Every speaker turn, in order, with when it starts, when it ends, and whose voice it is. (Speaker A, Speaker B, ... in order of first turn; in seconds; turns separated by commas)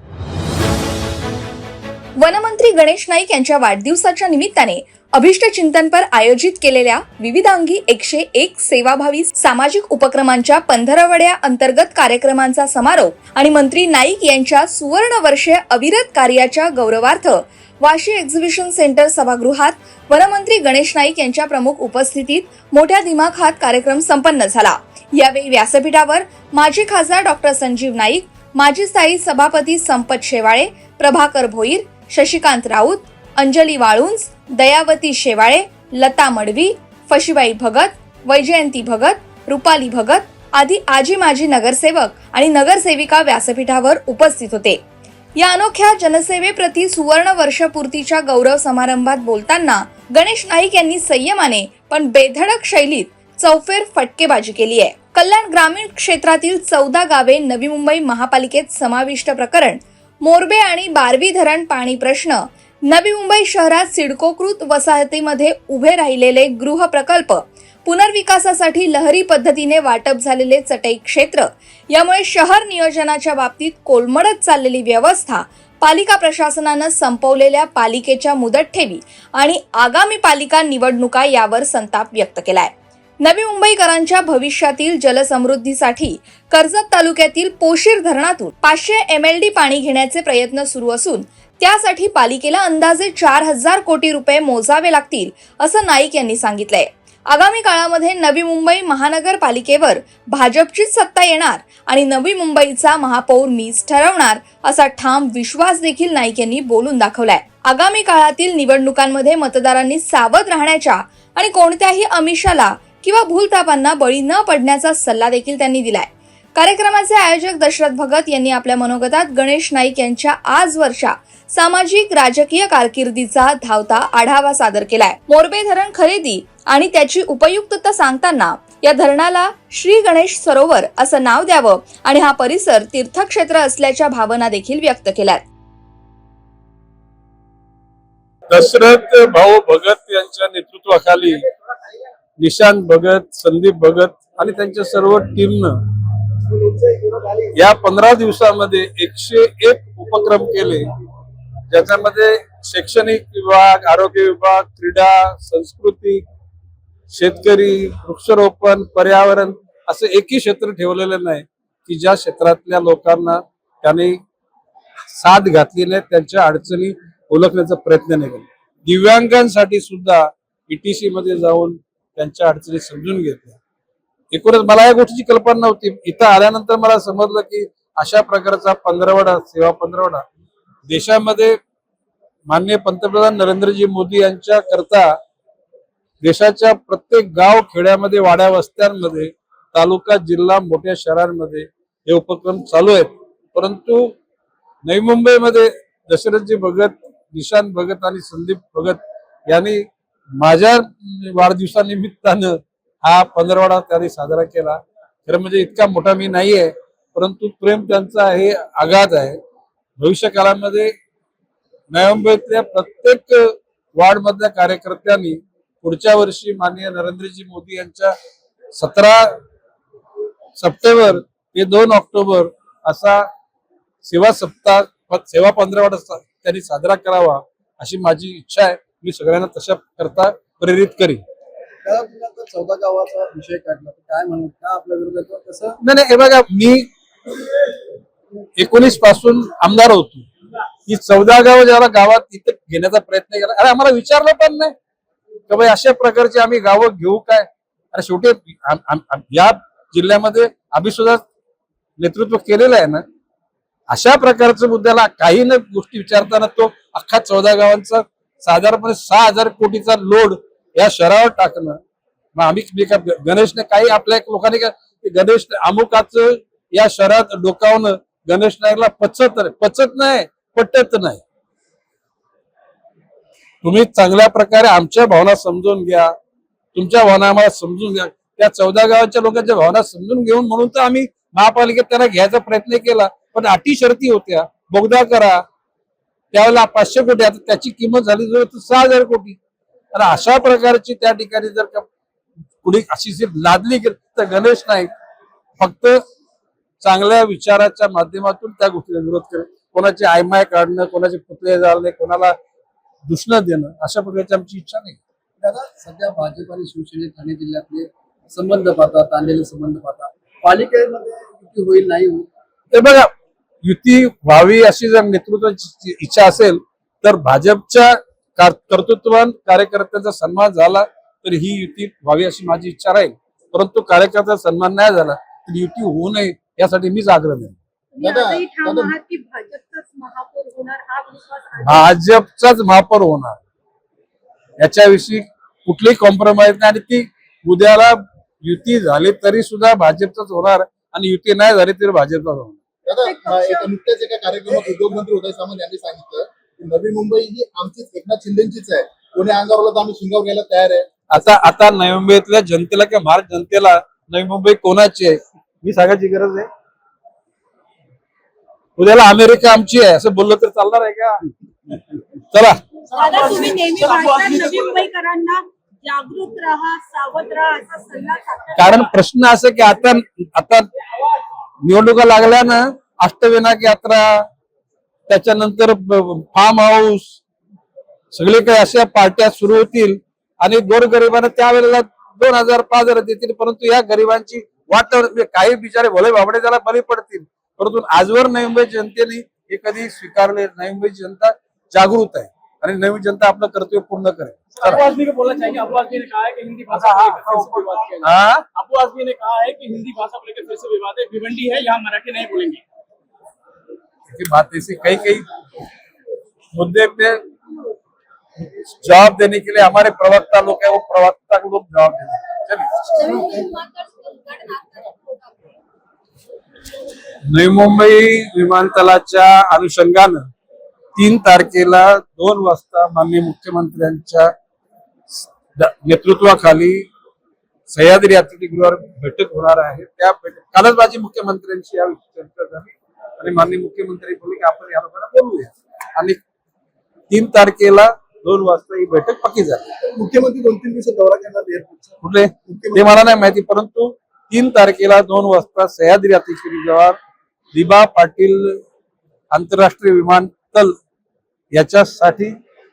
Speaker A: 2.2-44.8, Speaker A: 45.4-135.4, Speaker B: 138.5-141.4, Speaker B: 142.4-145.8, Speaker C: 146.5-147.5, Speaker B: 147.6-150.9, Speaker B: 151.7-156.2, Speaker B: 157.1-164.2, Speaker B: 165.1-173.6, Speaker B: 174.3-180.2, Speaker B: 180.9-181.6, Speaker B: 182.5-185.1, Speaker B: 186.2-194.2, Speaker B: 194.8-199.9, Speaker B: 200.4-209.4, Speaker B: 210.0-210.9, Speaker B: 211.9-218.1, Speaker B: 218.8-219.3, Speaker B: 220.6-223.3, Speaker B: 224.0-231.2, Speaker C: 231.8-235.8, Speaker B: 235.8-236.9, Speaker B: 238.6-240.3, Speaker B: 240.9-244.7, Speaker B: 245.5-251.2, Speaker B: 252.0-253.0, Speaker B: 253.9-261.8, Speaker B: 262.4-271.2, Speaker B: 273.6-276.1, Speaker B: 276.8-285.4, Speaker B: 286.3-289.4, Speaker B: 289.9-291.8, Speaker B: 292.6-294.9, Speaker B: 295.6-296.0, Speaker B: 296.8-302.4, Speaker B: 303.1-305.0, Speaker C: 305.4-312.3, Speaker B: 312.7-313.1, Speaker B: 313.6-327.6, Speaker D: 327.9-331.9, Speaker E: 328.0-328.9, Speaker B: 331.6-333.4, Speaker B: 334.6-342.6, Speaker E: 342.9-350.9, Speaker D: 343.0-343.7, Speaker B: 351.1-356.5, Speaker B: 358.8-361.3, Speaker B: 362.2-362.6, Speaker D: 362.9-368.8, Speaker F: 364.1-364.6, Speaker B: 368.6-370.7, Speaker B: 371.6-374.3, Speaker B: 375.1-377.1, Speaker B: 378.1-394.9, Speaker F: 394.6-402.6, Speaker B: 396.7-398.4, Speaker B: 404.1-405.3, Speaker B: 406.5-407.2, Speaker B: 408.4-413.2, Speaker D: 413.1-415.4, Speaker B: 417.3-420.3, Speaker B: 421.0-424.3, Speaker B: 425.2-426.9, Speaker B: 427.7-436.2, Speaker B: 437.1-439.6, Speaker E: 440.0-441.7, Speaker C: 440.0-441.9, Speaker B: 442.0-447.0, Speaker E: 442.5-442.9, Speaker B: 447.5-448.6, Speaker B: 449.3-450.8, Speaker B: 451.5-452.4